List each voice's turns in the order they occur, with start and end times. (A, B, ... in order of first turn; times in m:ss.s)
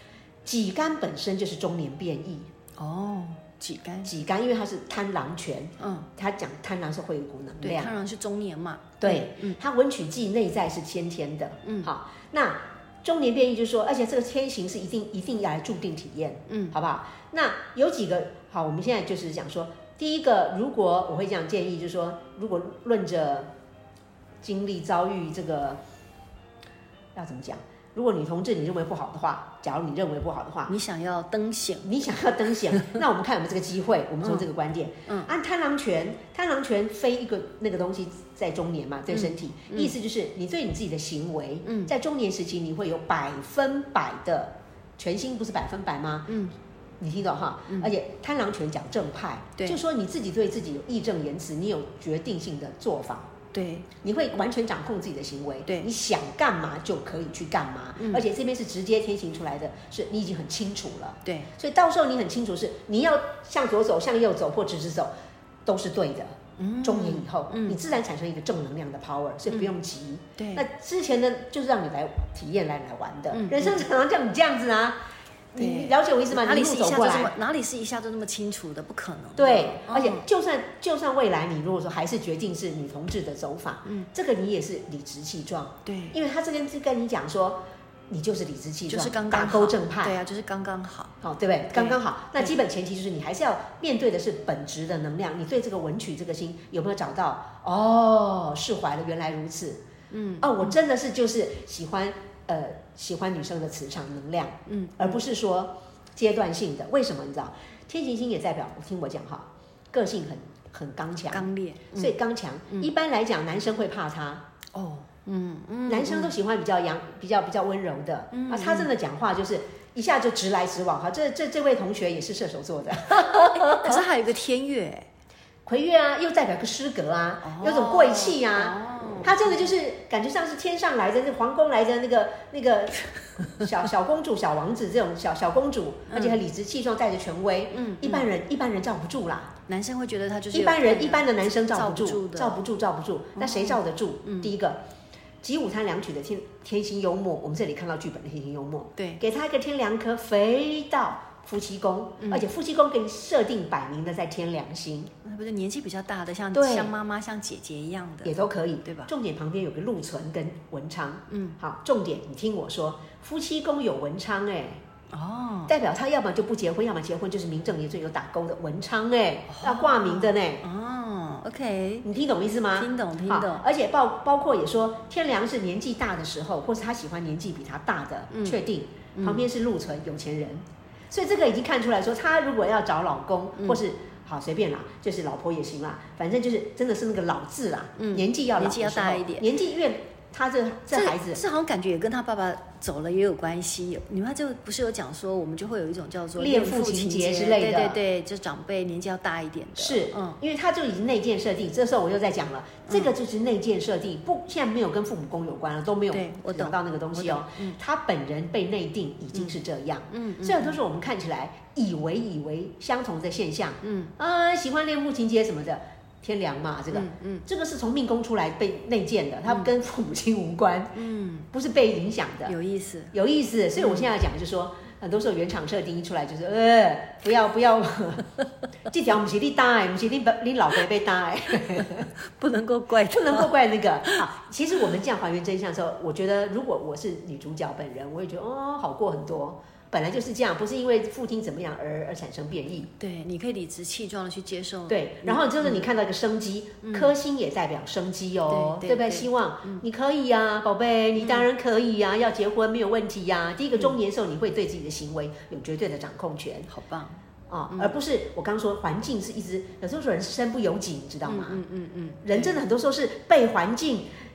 0:00.4-0:02.5 A
0:02.8-0:04.1 B
0:04.0-0:07.9 A
0:05.8-0:06.1 B
0:07.6-0:09.6 B
0:09.0-0:23.5 A
0:11.6-0:11.9 B
0:16.5-0:16.8 B
0:24.4-0:25.8 A
0:27.2-0:30.8 A
0:30.7-0:31.9 B
0:31.8-0:46.3 A
0:32.7-0:33.0 B
0:35.1-0:35.3 B
0:39.1-0:39.9 B
0:41.6-0:41.9 B
0:46.3-0:46.5 B
0:47.0-0:53.3 A
0:53.5-0:53.9 B
0:54.0-1:05.1 A
0:58.0-0:58.2 B
1:01.2-1:01.5 B
1:05.7-1:15.0 A
1:06.6-1:07.8 B
1:10.4-1:10.6 B
1:13.3-1:13.9 B
1:15.5-1:17.3 A
1:15.6-1:20.2 B
1:19.4-1:30.2 A
1:25.9-1:26.2 B
1:28.9-1:31.2 B
1:31.2-1:39.8 A
1:31.7-1:32.5 B
1:40.1-1:40.8 B
1:40.4-1:54.5 A
1:44.7-1:45.2 B
1:51.3-1:52.2 B
1:54.7-1:56.4 B
1:55.9-2:04.0 A
1:58.3-1:58.9 B
2:03.1-2:05.1 B
2:05.6-2:19.5 A
2:07.4-2:09.7 B
2:16.1-2:16.4 B
2:17.7-2:18.3 B
2:19.7-2:22.6 B
2:20.5-2:24.8 A
2:23.4-2:24.5 B
2:25.4-2:35.1 A
2:32.2-2:32.5 B
2:35.2-2:39.1 B
2:36.5-2:36.9 A
2:38.2-2:44.8 A
2:41.3-2:41.6 B
2:45.1-2:45.7 B
2:45.7-2:50.6 A
2:49.5-2:52.1 B
2:52.0-3:11.4 A
2:52.8-2:53.6 B
2:58.3-2:58.6 B
2:59.2-2:59.4 B
3:08.0-3:09.5 B
3:10.9-3:20.4 B
3:16.4-3:18.0 A
3:19.8-3:41.0 A
3:22.9-3:23.1 B
3:26.1-3:27.8 B
3:30.1-3:30.8 B
3:33.8-3:34.1 B
3:36.9-3:37.4 B
3:41.0-3:41.5 B
3:41.5-3:42.6 A
3:42.5-3:43.2 B
3:43.1-3:48.3 A
3:43.8-3:44.1 B
3:48.9-3:52.1 A
3:52.3-3:53.5 B
3:53.1-4:02.9 A
4:03.0-4:05.8 B
4:04.9-4:16.7 A
4:06.8-4:07.1 B
4:08.5-4:09.8 B
4:11.2-4:11.5 B
4:16.7-4:17.9 B
4:17.5-4:21.6 A
4:21.2-4:22.6 B
4:22.2-4:24.1 A